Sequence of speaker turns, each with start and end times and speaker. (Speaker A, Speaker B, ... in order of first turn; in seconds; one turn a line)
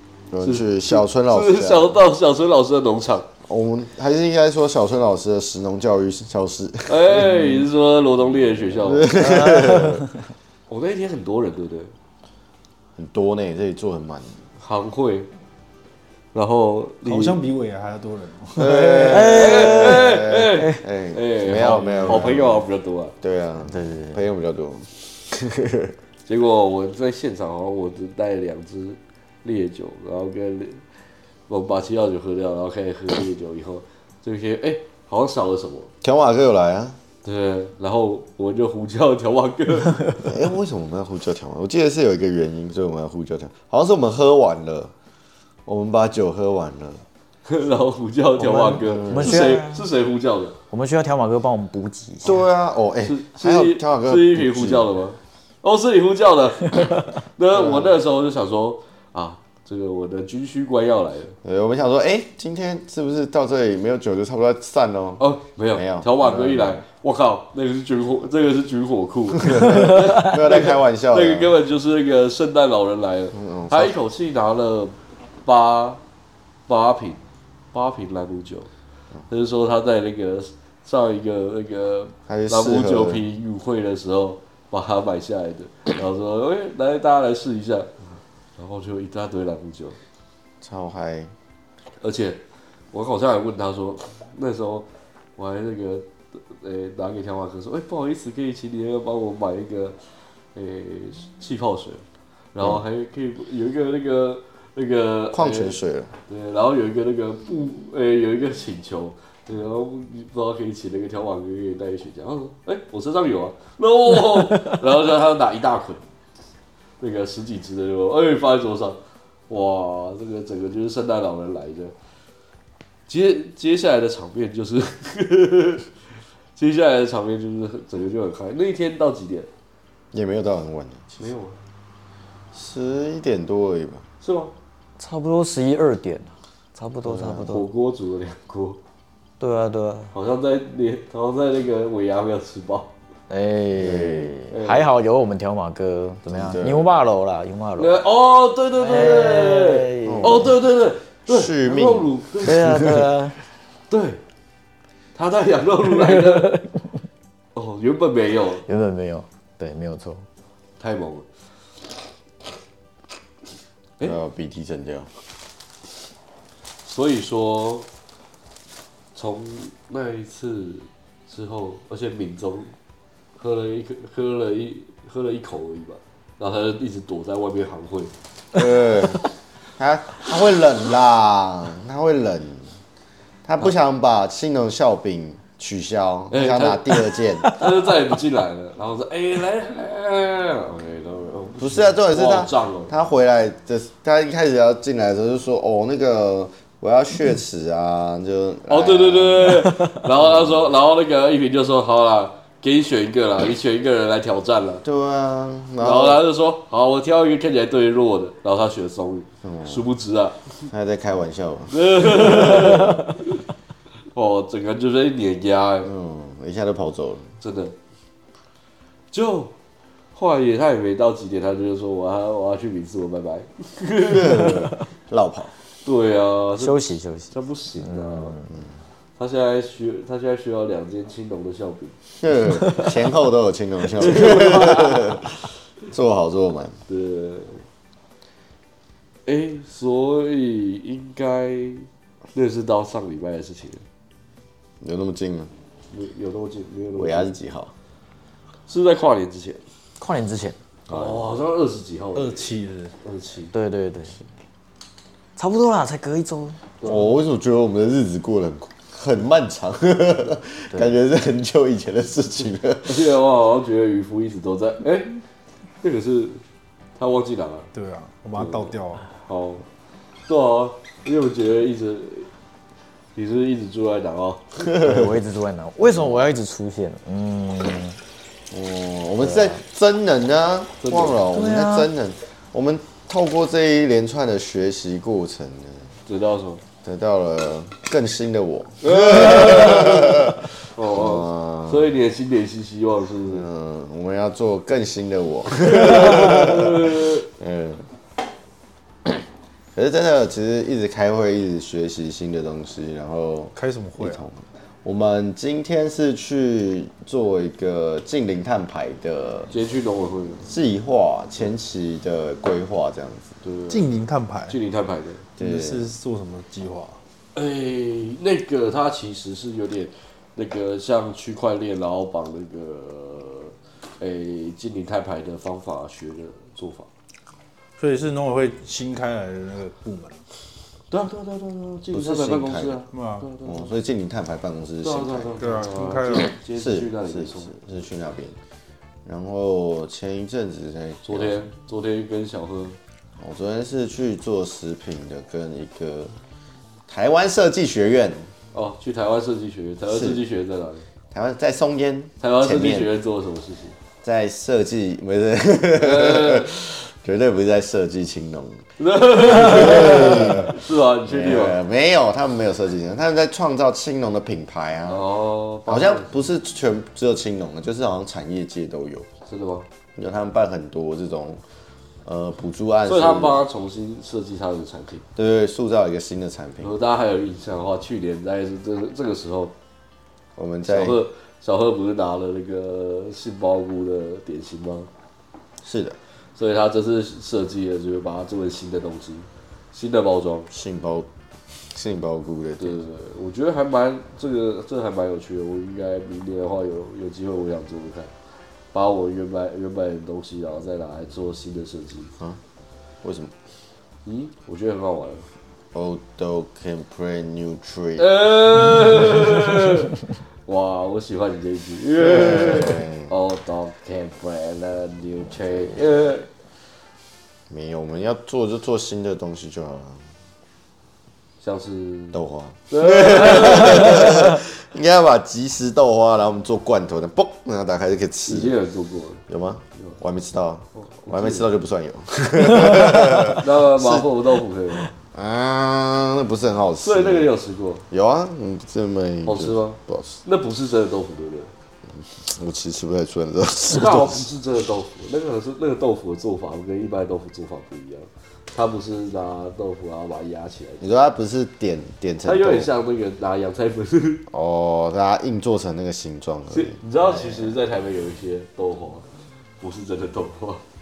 Speaker A: 0.3-2.0
Speaker B: 0.4-3.3
Speaker A: 3.5-7.2
Speaker B: 6.9-9.1
Speaker C: 7.2-7.6
Speaker A: 8.8-10.1
Speaker C: 9.1-10.0
Speaker B: 10.7-11.9
Speaker A: 12.9-14.4
Speaker B: 14.6-15.3
Speaker B: 16.3-17.4
Speaker D: 17.0-19.4
Speaker A: 18.5-22.6
Speaker C: 18.9-20.8
Speaker B: 19.3-23.1
Speaker C: 21.6-22.3
Speaker A: 23.2-25.9
Speaker C: 23.6-24.2
Speaker B: 26.2-30.8
Speaker B: 31.5-35.9
Speaker A: 36.0-37.0
Speaker B: 37.2-40.2
Speaker A: 40.2-44.9
Speaker A: 45.6-47.0
Speaker B: 47.4-50.5
Speaker C: 48.4-49.8
Speaker A: 48.8-49.6
Speaker C: 50.7-52.4
Speaker A: 52.2-54.9
Speaker B: 53.0-61.4
Speaker A: 57.5-57.9
Speaker A: 61.4-65.2
Speaker B: 65.2-76.0
Speaker A: 65.7-66.7
Speaker A: 69.4-71.5
Speaker A: 73.3-73.9
Speaker B: 76.7-78.7
Speaker B: 79.3-87.9
Speaker A: 82.3-83.2
Speaker B: 88.6-90.0
Speaker A: 90.6-91.3
Speaker B: 92.0-92.4
Speaker B: 92.9-100.0
Speaker B: 100.5-105.8
Speaker A: 105.3-106.1
Speaker B: 106.3-116.0
Speaker B: 117.0-121.9
Speaker B: 123.1-125.9
Speaker B: 126.5-129.5
Speaker A: 130.1-131.2
Speaker B: 131.2-131.6
Speaker A: 132.5-134.0
Speaker B: 134.2-134.5
Speaker C: 135.0-137.7
Speaker A: 137.1-137.4
Speaker B: 137.3-138.8
Speaker C: 139.4-140.1
Speaker B: 140.1-142.9
Speaker C: 143.3-148.0
Speaker A: 143.8-144.3
Speaker B: 144.5-144.9
Speaker A: 146.3-146.9
Speaker B: 147.8-152.8
Speaker C: 148.8-150.5
Speaker A: 150.0-150.5
Speaker A: 151.3-152.1
Speaker C: 152.4-153.4
Speaker A: 152.6-153.0
Speaker B: 153.9-154.2
Speaker B: 155.1-156.6
Speaker C: 156.0-156.8
Speaker B: 157.5-158.6
Speaker C: 158.7-160.2
Speaker B: 160.8-161.2
Speaker A: 164.0-165.1
Speaker B: 166.8-167.9
Speaker B: 169.1-172.7
Speaker B: 173.4-178.1
Speaker A: 178.5-179.2
Speaker A: 179.8-182.7
Speaker A: 183.4-187.9
Speaker B: 186.3-192.9
Speaker A: 191.6-199.6
Speaker B: 198.7-204.8
Speaker A: 200.2-200.6
Speaker A: 204.8-206.2
Speaker B: 205.8-210.5
Speaker A: 209.4-209.8
Speaker A: 210.7-212.9
Speaker B: 211.7-213.1
Speaker B: 214.1-215.9
Speaker A: 215.8-217.3
Speaker B: 217.4-217.8
Speaker B: 219.1-219.5
Speaker B: 220.1-224.7
Speaker A: 224.0-225.5
Speaker B: 225.8-228.4
Speaker C: 226.6-228.5
Speaker B: 229.2-232.0
Speaker A: 232.2-235.3
Speaker B: 234.0-235.2
Speaker A: 235.8-236.8
Speaker B: 236.9-237.7
Speaker B: 239.2-243.8
Speaker A: 244.8-245.5
Speaker B: 245.9-247.3
Speaker A: 246.9-247.7
Speaker B: 248.7-249.6
Speaker C: 250.0-250.6
Speaker A: 250.9-251.2
Speaker B: 250.9-252.5
Speaker D: 252.1-252.9
Speaker B: 253.0-253.5
Speaker C: 253.5-254.2
Speaker C: 255.3-256.6
Speaker A: 256.8-263.1
Speaker B: 262.9-265.2
Speaker B: 265.8-266.4
Speaker B: 267.0-267.7
Speaker D: 267.7-269.1
Speaker B: 269.2-269.6
Speaker B: 270.3-272.3
Speaker B: 273.1-274.7
Speaker A: 274.6-275.2
Speaker C: 274.8-278.0
Speaker A: 275.8-276.3
Speaker A: 278.5-285.9
Speaker C: 279.2-279.6
Speaker B: 280.8-281.2
Speaker C: 281.3-281.9
Speaker B: 286.1-286.6
Speaker A: 286.8-291.9
Speaker B: 288.8-293.4
Speaker A: 293.3-297.9
Speaker B: 295.6-297.2
Speaker A: 299.7-309.5
Speaker D: 303.5-304.2
Speaker B: 309.5-310.5
Speaker A: 310.4-313.3
Speaker B: 313.4-313.9
Speaker D: 313.7-314.6
Speaker B: 314.5-315.2
Speaker A: 315.4-315.9
Speaker D: 315.4-317.0
Speaker B: 317.3-326.9
Speaker D: 327.8-330.2
Speaker B: 330.9-333.7
Speaker A: 331.9-332.8
Speaker D: 332.9-333.3
Speaker A: 333.4-338.4
Speaker B: 334.8-337.5
Speaker D: 335.4-336.3
Speaker A: 339.0-341.4
Speaker B: 341.0-342.8
Speaker A: 343.2-346.1
Speaker A: 346.9-348.3
Speaker B: 348.5-350.9
Speaker A: 349.9-350.2
Speaker A: 351.1-352.9
Speaker B: 352.2-353.8
Speaker A: 354.0-365.0
Speaker B: 355.8-356.5
Speaker B: 358.8-361.6
Speaker B: 364.9-366.2
Speaker A: 365.7-369.1
Speaker B: 369.2-369.7
Speaker A: 369.9-371.4
Speaker A: 372.0-373.4
Speaker B: 372.8-375.0
Speaker A: 375.1-376.8
Speaker B: 376.6-379.5
Speaker A: 380.4-381.0
Speaker B: 380.6-384.9
Speaker A: 385.6-386.0
Speaker B: 386.3-390.5
Speaker A: 390.5-391.1
Speaker A: 391.7-392.8
Speaker B: 392.6-398.1
Speaker B: 398.7-402.1
Speaker A: 403.0-403.3
Speaker B: 404.0-405.3
Speaker A: 405.7-408.1
Speaker B: 408.0-416.3
Speaker A: 412.0-413.1
Speaker A: 417.5-420.1
Speaker B: 421.4-422.2
Speaker A: 422.1-428.5
Speaker B: 422.7-424.4
Speaker B: 428.2-429.2
Speaker A: 429.3-434.1
Speaker B: 430.8-431.5
Speaker B: 433.3-434.9
Speaker A: 435.1-437.3
Speaker B: 436.8-437.8
Speaker A: 437.9-440.2
Speaker B: 439.2-441.5
Speaker A: 441.9-444.2
Speaker B: 443.7-450.8
Speaker A: 450.8-452.7
Speaker B: 452.2-454.2
Speaker A: 454.3-456.8
Speaker B: 456.5-459.1
Speaker B: 459.6-460.6